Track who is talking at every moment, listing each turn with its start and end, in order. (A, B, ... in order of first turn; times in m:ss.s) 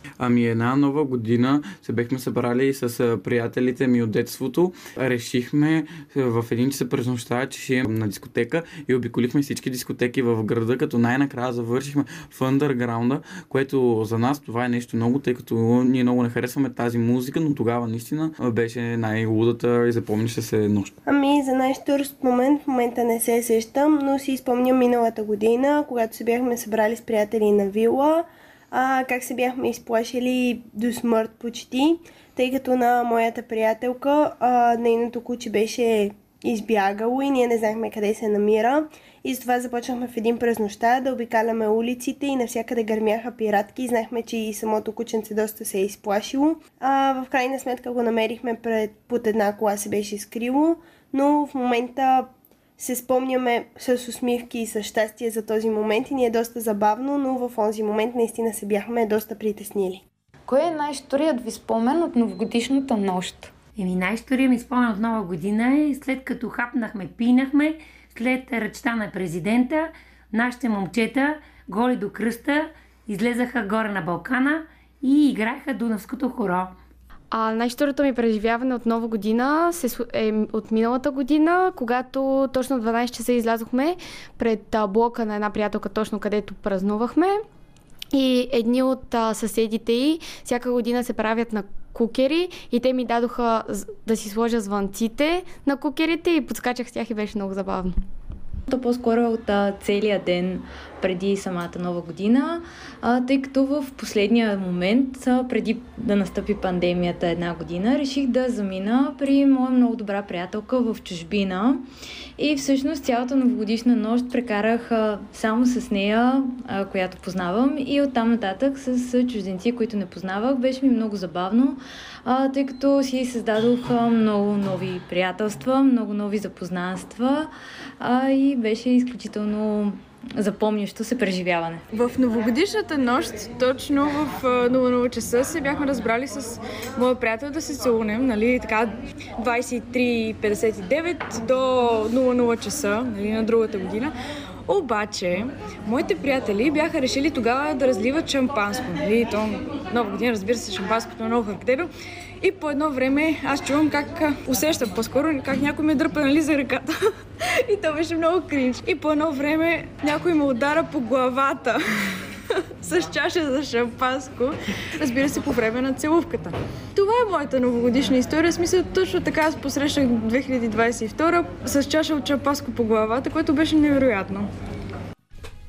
0:00.2-0:20.9 A
0:21.1-1:00.0 B
1:00.5-1:03.5 C
1:03.8-1:16.7 D
1:17.3-1:27.4 E
1:28.1-1:38.0 E
1:38.7-2:11.8 F
2:11.9-2:24.1 G
2:24.7-2:36.9 G
2:37.6-2:41.8 G
2:42.8-2:54.5 G